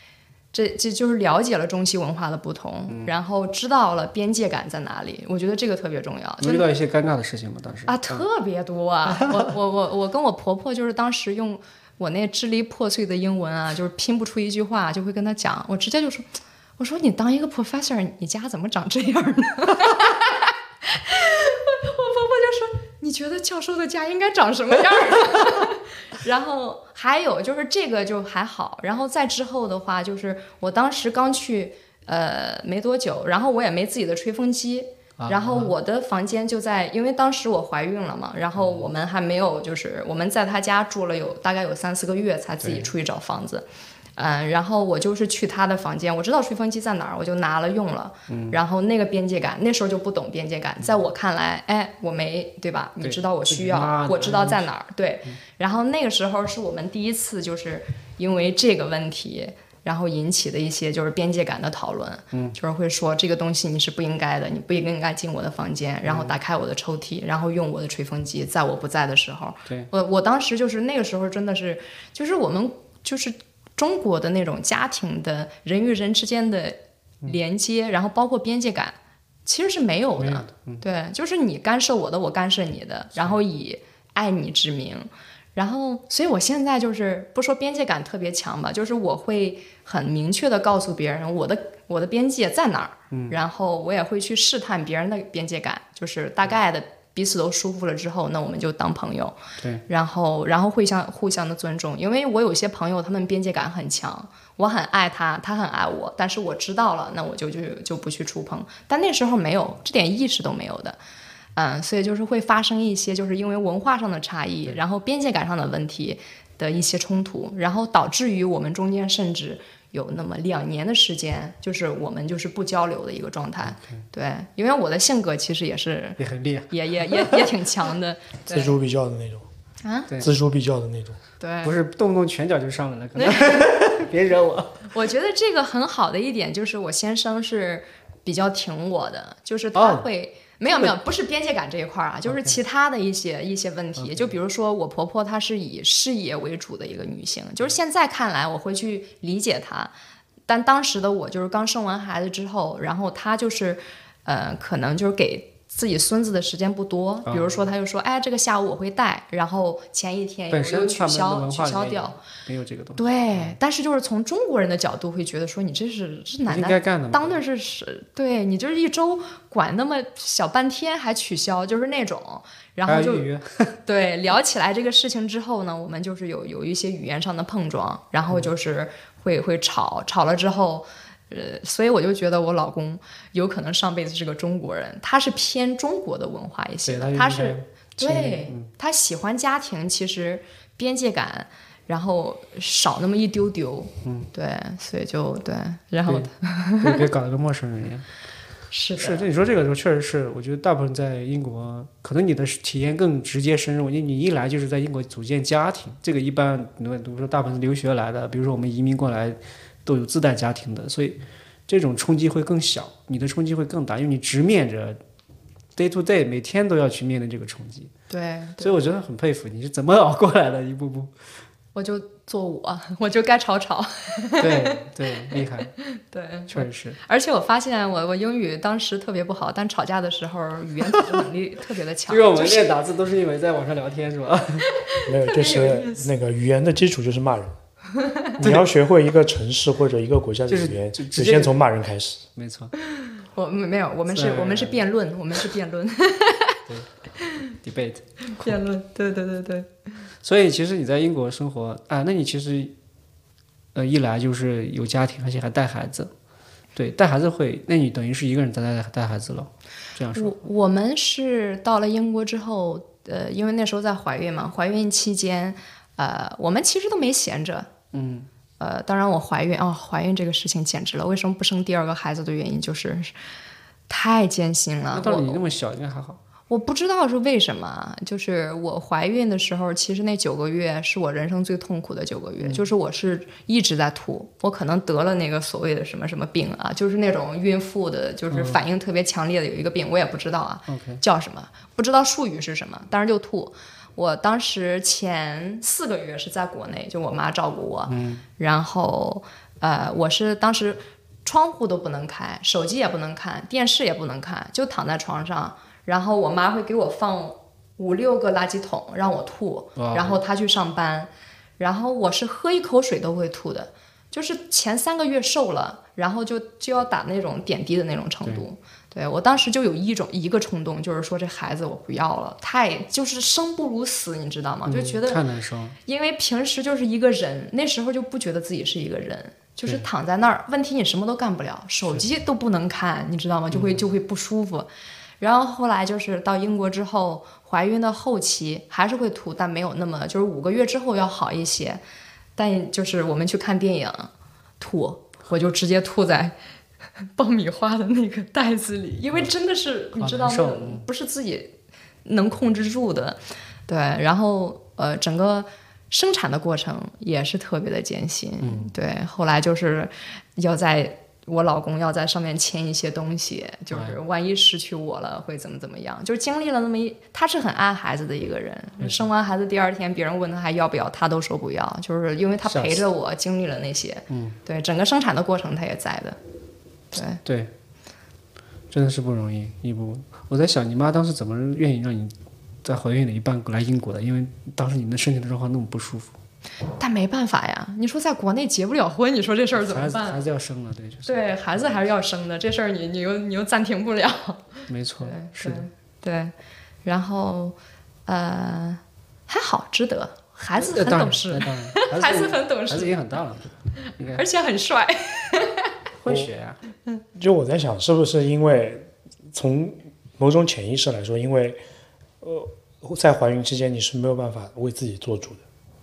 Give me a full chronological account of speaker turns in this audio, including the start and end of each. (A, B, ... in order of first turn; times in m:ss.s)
0:00.5-0:06.7 A
0:06.4-0:08.2 B
0:07.9-1:39.4 A
0:35.2-0:35.7 B
0:38.6-0:38.9 B
0:42.6-0:42.9 B
0:48.3-0:48.6 B
0:53.0-0:54.6 B
1:02.3-1:02.6 B
1:06.0-1:06.4 B
1:20.2-1:20.8 B
1:33.1-1:33.4 B
1:39.9-1:51.0 A
1:51.6-2:08.8 A
2:06.2-2:07.5 B
2:08.5-2:09.4 C
2:09.8-2:10.1 A
2:10.2-2:11.2 C
2:11.4-2:11.7 A
2:11.6-2:14.9 B
2:13.2-2:13.7 A
2:14.9-2:29.9 A
2:19.7-2:20.0 B
2:22.3-2:22.6 B
2:24.0-2:24.4 B
2:30.5-2:42.2 A
2:37.2-2:37.7 B
2:40.5-2:43.6 B
2:43.0-2:53.2 A
2:46.5-2:47.4 B
2:52.9-2:53.8 B
2:53.8-3:17.0 A
3:06.8-3:08.7 B
3:14.0-3:14.3 B
3:16.8-3:18.0 B
3:18.7-3:19.3 A
3:19.0-3:35.0 B
3:35.8-3:37.9 B
3:38.1-3:38.7 A
3:38.6-3:41.1 B
3:41.7-3:44.9 A
3:44.4-3:45.7 B
3:45.8-3:52.7 A
3:46.5-3:47.0 B
3:52.1-3:54.7 B
3:54.7-3:56.1 A
3:55.0-3:57.5 C
3:58.0-3:58.3 A
3:58.4-3:58.7 B
3:58.4-4:02.2 C
4:00.5-4:01.5 B
4:02.4-4:02.7 B
4:02.9-4:06.6 A
4:04.1-4:04.8 B
4:07.6-4:08.5 B
4:08.3-4:09.7 A
4:10.2-4:12.7 B
4:13.7-4:16.1 B
4:16.8-4:20.4 B
4:20.1-4:27.7 A
4:27.9-4:28.3 B
4:28.6-4:33.1 A
4:33.9-4:35.4 A
4:34.9-4:36.2 B
4:36.5-5:25.2 A
4:48.3-4:48.6 B
4:50.7-4:51.0 B
4:57.9-4:58.2 B
5:09.8-5:10.2 B
5:24.7-5:25.8 B
5:25.8-5:34.7 A
5:33.5-5:33.9 B
5:35.2-5:41.8 A
5:42.4-5:46.3 A
5:47.2-5:51.5 A
5:50.0-5:50.8 B
5:52.0-6:16.2 A
5:58.4-5:58.7 B
6:03.7-6:04.0 B
6:08.8-6:09.1 B
6:12.4-6:12.8 B
6:14.1-6:14.4 B
6:16.9-6:17.2 A
6:17.2-6:17.5 B
6:18.7-6:22.1 B
6:22.6-6:26.1 B
6:26.8-6:30.2 A
6:29.5-6:31.8 B
6:31.0-6:34.5 A
6:34.7-6:35.6 B
6:35.0-6:36.3 A
6:36.8-6:43.0 A
6:40.6-6:44.2 B
6:44.1-6:45.7 A
6:46.0-6:46.6 B
6:47.1-6:51.6 C
6:52.2-6:55.4 C